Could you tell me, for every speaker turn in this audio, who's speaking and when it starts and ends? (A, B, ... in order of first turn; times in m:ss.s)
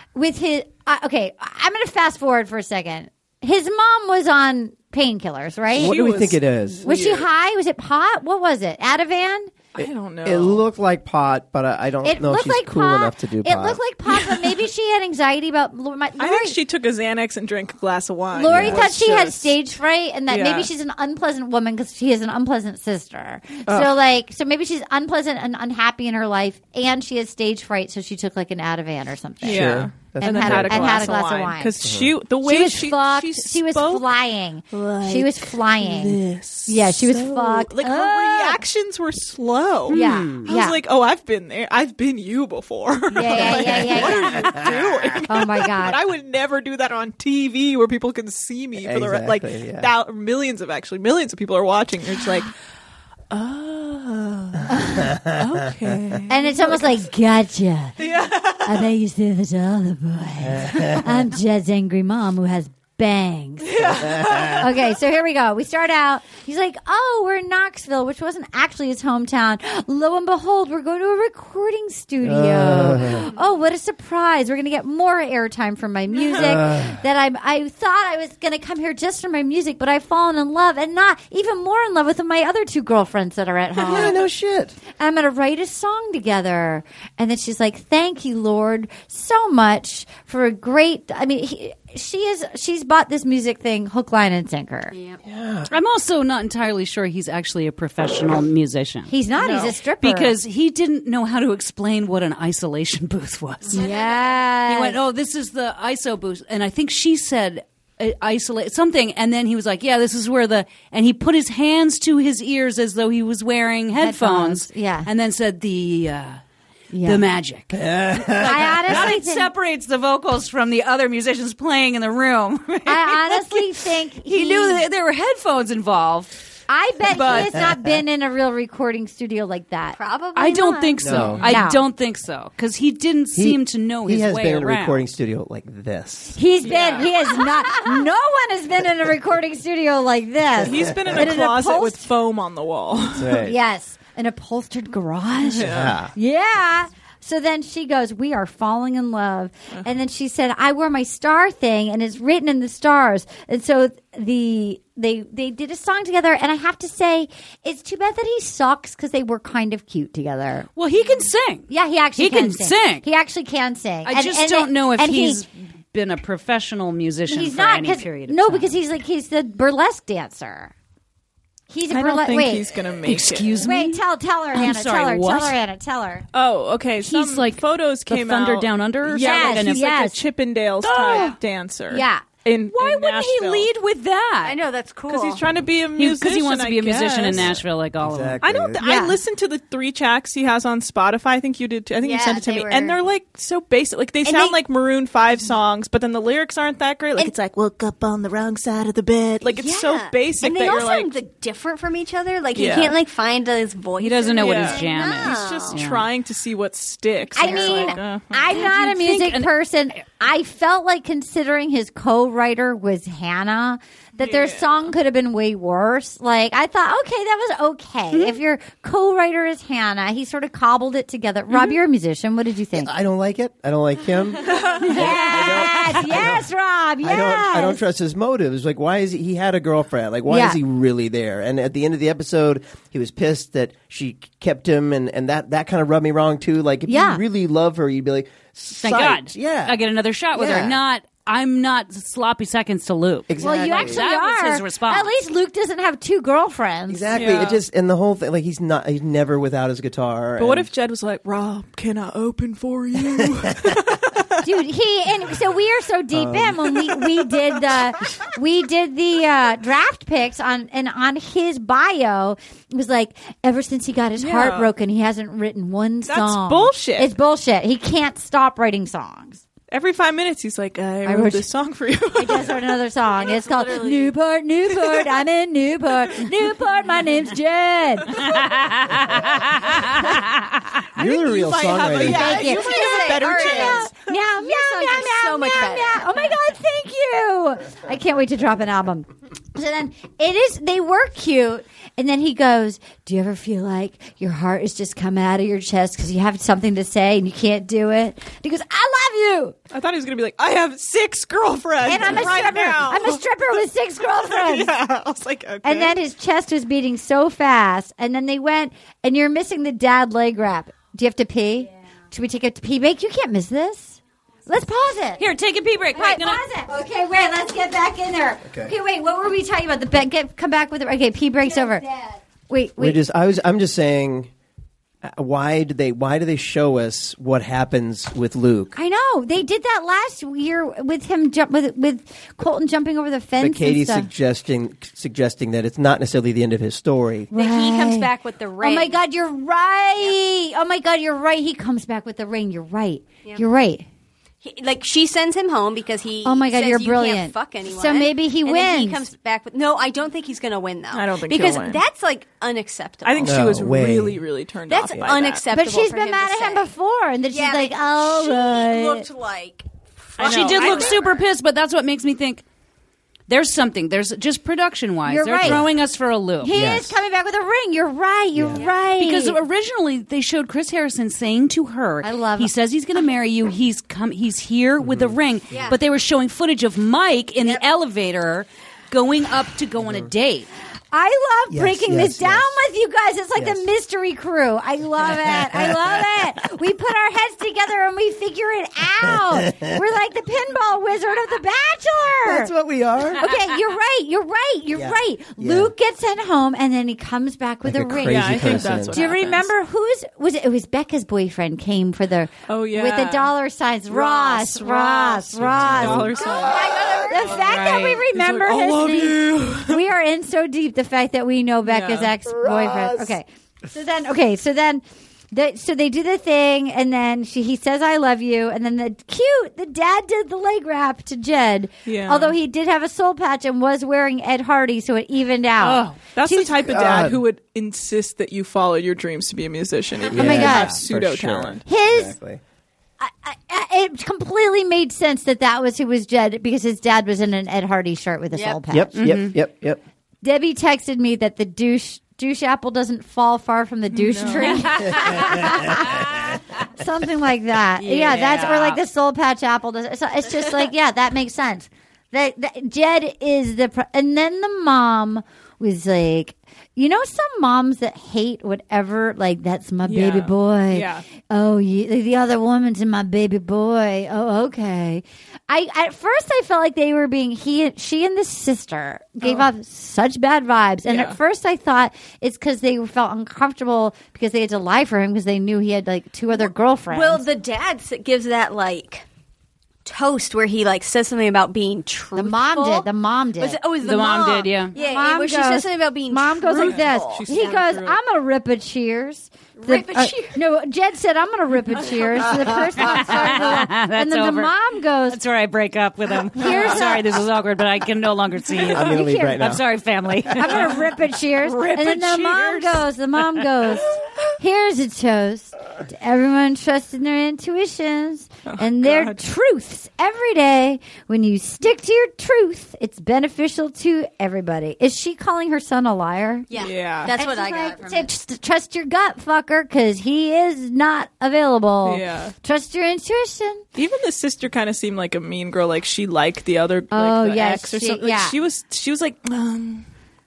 0:00.2-0:06.0 A
0:05.7-0:07.3 B
0:05.7-0:06.4 C
0:06.8-0:09.5 A
0:09.8-0:10.6 C
0:09.8-0:13.8 B
0:12.0-0:16.6 A
0:14.1-0:14.5 C
0:16.2-0:19.6 C
0:18.3-0:31.8 A
0:18.5-0:18.9 B
0:20.3-0:20.7 C
0:23.7-0:24.0 C
0:29.4-0:31.2 B
0:29.4-0:34.1 C
0:31.8-0:32.1 B
0:32.4-0:38.6 A
0:34.7-0:52.5 C
0:39.9-0:40.5 D
0:39.9-0:40.8 A
0:43.1-0:44.6 A
0:44.0-0:45.2 B
0:45.3-0:46.0 A
0:48.8-0:49.9 B
0:53.3-0:57.0 C
0:54.7-0:55.0 A
0:55.0-0:55.9 B
0:56.3-0:58.0 A
0:58.0-0:58.9 C
0:58.6-1:24.2 A
1:00.4-1:01.3 B
1:03.7-1:04.8 C
1:04.0-1:04.7 B
1:12.2-1:13.3 B
1:16.4-1:17.0 B
1:23.8-1:24.8 B
1:25.0-1:34.9 A
1:34.9-1:35.2 E
1:35.2-1:35.7 B
1:35.7-1:39.1 D
1:39.1-1:40.4 A
1:39.4-1:39.8 C
1:40.0-1:43.9 D
1:43.7-1:44.3 E
1:43.7-1:45.0 A
1:44.6-1:56.4 D
1:54.0-1:55.1 A
1:56.9-1:57.2 A
1:57.0-2:06.3 D
1:57.7-1:59.1 B
1:58.4-1:59.5 A
2:02.8-2:04.8 A
2:06.7-2:10.0 A
2:07.1-2:07.6 D
2:10.0-2:11.2 E
2:10.4-2:15.0 D
2:11.0-2:11.5 B
2:11.2-2:11.6 C
2:11.4-2:11.8 A
2:13.4-2:16.4 B
2:16.4-2:22.1 A
2:16.6-2:17.1 C
2:20.6-2:21.4 B
2:20.6-2:23.4 C
2:23.1-2:23.6 B
2:23.4-2:40.7 A
2:25.4-2:26.0 C
2:25.6-2:26.1 B
2:40.8-2:43.0 D
2:41.7-2:45.4 A
2:44.0-2:48.7 D
2:47.3-2:50.7 A
2:51.7-2:52.7 A
2:51.9-2:53.7 C
2:53.0-2:54.0 D
2:53.6-2:56.2 A
2:54.5-2:55.6 D
2:56.3-3:03.7 C
2:57.0-3:00.0 D
2:59.2-3:00.2 A
3:00.8-3:01.4 D
3:00.9-3:01.4 A
3:01.9-3:02.2 A
3:02.6-3:04.6 D
3:04.4-3:05.4 E
3:05.1-3:07.6 C
3:06.0-3:08.4 D
3:07.3-3:08.9 B
3:08.4-3:21.1 C
3:08.8-3:09.2 A
3:12.0-3:13.0 E
3:19.4-3:25.8 E
3:22.6-3:23.0 C
3:24.0-3:26.1 D
3:24.4-3:28.6 C
3:27.4-3:42.9 A
3:27.4-3:28.0 E
3:28.5-3:29.5 D
3:34.2-3:34.9 C
3:42.8-3:46.5 B
3:44.6-3:45.5 C
3:44.8-3:47.8 A
3:47.0-3:59.8 B
3:50.3-3:50.6 A
3:56.9-3:57.2 A
3:58.8-4:05.1 D
4:00.3-4:00.8 B
4:03.3-4:04.0 B
4:03.4-4:07.2 A
4:06.9-4:10.7 B
4:07.2-4:07.6 C
4:10.4-4:14.4 C
4:14.4-4:29.4 A
4:16.1-4:16.8 B
4:24.2-4:24.7 C
4:26.0-4:27.1 C
4:29.7-4:32.7 C
4:31.0-4:31.5 A
4:32.1-4:38.5 A
4:33.2-4:34.2 E
4:38.3-4:40.9 D
4:41.0-4:42.5 B
4:41.0-4:43.9 C
4:42.0-4:46.1 E
4:42.0-4:59.6 A
4:59.7-5:03.2 C
5:01.8-5:04.7 A
5:04.3-5:05.9 C
5:05.6-5:15.3 A
5:15.2-5:16.4 D
5:15.9-5:21.9 A
5:18.5-5:18.7 B
5:21.5-5:22.2 E
5:22.5-5:23.0 A
5:22.8-5:24.3 B
5:25.0-5:28.8 B
5:28.8-5:34.1 A
5:33.4-5:37.3 B
5:37.3-5:38.1 A
5:37.3-5:39.0 E
5:38.6-5:43.9 A
5:44.4-5:53.4 E
5:46.2-5:49.0 A
5:50.9-5:51.8 C
5:53.0-5:55.5 C
5:53.2-5:54.2 B
5:54.7-5:56.7 E
5:55.5-5:59.1 A
5:57.3-6:01.2 E
6:00.2-6:02.4 D
6:00.2-6:01.1 C
6:03.3-6:06.5 D
6:05.0-6:05.7 A
6:06.4-6:09.4 A
6:06.5-6:07.0 B
6:08.4-6:08.6 B
6:08.9-6:20.5 D
6:12.0-6:12.5 A
6:14.8-6:15.2 B
6:15.5-6:15.8 E
6:19.8-6:20.1 B
6:20.9-6:32.5 A
6:21.5-6:22.6 B
6:23.4-6:23.7 B
6:25.1-6:26.1 B
6:29.0-6:29.8 B
6:32.2-6:33.3 B
6:33.2-7:06.8 A
6:34.7-6:35.7 B
6:37.6-6:39.0 B
6:38.0-6:39.5 C
6:42.5-6:43.3 C
6:43.9-6:47.5 C
6:45.4-6:47.3 B
6:46.2-6:47.0 E
6:47.4-6:48.1 D
6:48.1-6:49.8 C
6:51.7-6:52.1 C
6:52.2-6:53.2 B
7:01.9-7:02.4 C
7:05.6-7:06.0 D
7:06.0-7:11.6 C
7:06.6-7:07.2 B
7:10.1-7:12.4 B
7:10.1-7:10.8 A
7:11.7-7:12.2 A
7:13.0-7:19.0 A
7:18.3-7:18.6 E
7:18.7-7:19.8 B
7:18.9-7:19.4 D
7:20.2-7:57.3 A
7:23.9-7:25.2 C
7:24.4-7:26.3 D
7:25.0-7:26.0 B
7:27.8-7:28.8 D
7:39.9-7:41.1 C
7:50.9-7:51.2 C
7:56.9-7:59.0 E
7:59.8-8:02.9 E
8:02.2-8:03.6 A
8:03.4-8:07.6 E
8:03.8-8:04.8 D
8:04.7-8:15.2 A
8:06.6-8:08.0 C
8:09.6-8:10.4 E
8:12.8-8:14.5 D
8:15.1-8:20.9 D
8:16.4-8:17.0 A
8:18.5-8:19.6 B
8:18.8-8:19.6 A
8:20.3-8:36.5 A
8:21.4-8:22.8 D
8:28.5-8:29.2 C
8:36.5-8:38.1 E
8:36.6-8:37.1 C
8:37.0-8:43.6 A
8:41.8-8:42.3 C
8:43.8-8:49.9 C
8:46.9-8:48.4 A